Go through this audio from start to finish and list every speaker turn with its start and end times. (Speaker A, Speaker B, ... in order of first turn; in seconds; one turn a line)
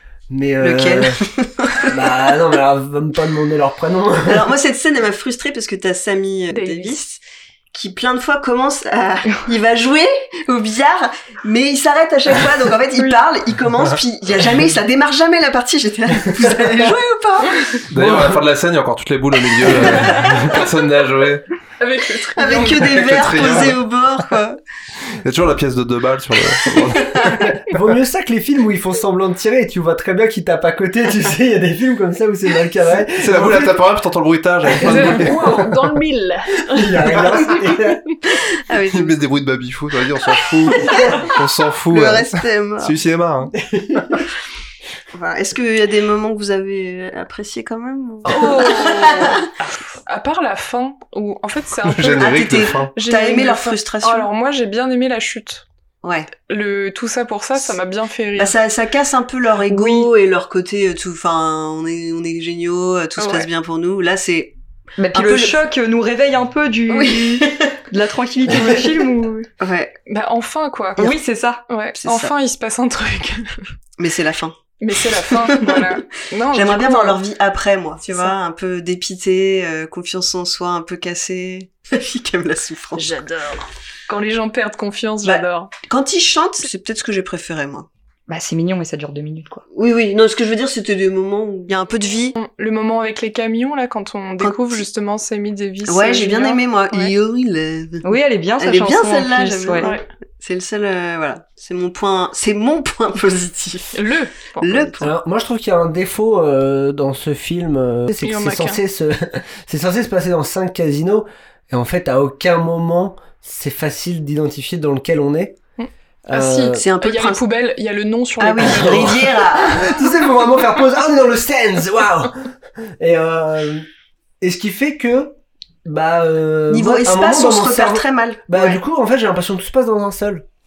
Speaker A: 0.3-1.2
Speaker B: 0.6-1.9
Speaker A: 1.8-4.5
Speaker B: 4.3-7.2
Speaker C: 6.5-7.0
Speaker B: 7.7-17.8
Speaker D: 17.9-21.4
Speaker A: 17.9-18.4
Speaker A: 19.7-20.3
Speaker C: 21.8-23.7
Speaker B: 22.4-24.6
Speaker D: 22.8-23.8
Speaker D: 25.2-27.4
Speaker B: 26.7-27.5
Speaker A: 27.6-33.8
Speaker D: 33.1-35.7
Speaker A: 34.8-35.6
Speaker C: 34.8-37.6
Speaker A: 36.7-38.0
Speaker B: 38.6-39.2
Speaker D: 38.9-43.5
Speaker B: 40.7-41.2
Speaker B: 41.9-43.0
Speaker B: 45.1-49.5
Speaker C: 48.3-49.5
Speaker C: 50.1-55.6
Speaker D: 51.9-53.0
Speaker B: 52.2-54.3
Speaker B: 56.0-56.3
Speaker C: 56.5-58.5
Speaker B: 58.4-64.5
Speaker C: 59.7-60.1
Speaker C: 63.2-63.5
Speaker E: 65.0-69.4
Speaker B: 65.2-65.6
Speaker B: 66.9-67.7
Speaker C: 68.8-69.4
Speaker B: 69.6-70.0
Speaker C: 70.1-71.1
Speaker E: 71.0-71.6
Speaker C: 71.7-73.6
Speaker B: 72.0-72.3
Speaker B: 74.0-74.6
Speaker C: 74.8-77.2
Speaker B: 75.1-76.0
Speaker B: 76.5-83.2
Speaker C: 78.0-78.3
Speaker C: 83.0-85.7
Speaker B: 85.2-87.9
Speaker E: 88.3-89.6
Speaker B: 89.7-92.3
Speaker C: 92.3-97.1
Speaker B: 94.4-94.8
Speaker B: 95.9-98.0
Speaker E: 98.0-99.9
Speaker B: 98.6-104.0
Speaker C: 99.8-100.0
Speaker C: 103.9-105.0
Speaker B: 104.6-105.1
Speaker A: 105.0-115.6
Speaker C: 108.2-108.8
Speaker C: 115.8-119.4
Speaker A: 116.3-116.8
Speaker B: 116.4-117.4
Speaker B: 118.4-120.0
Speaker A: 118.6-122.4
Speaker A: 123.0-123.9
Speaker A: 124.4-130.4
Speaker B: 126.7-128.8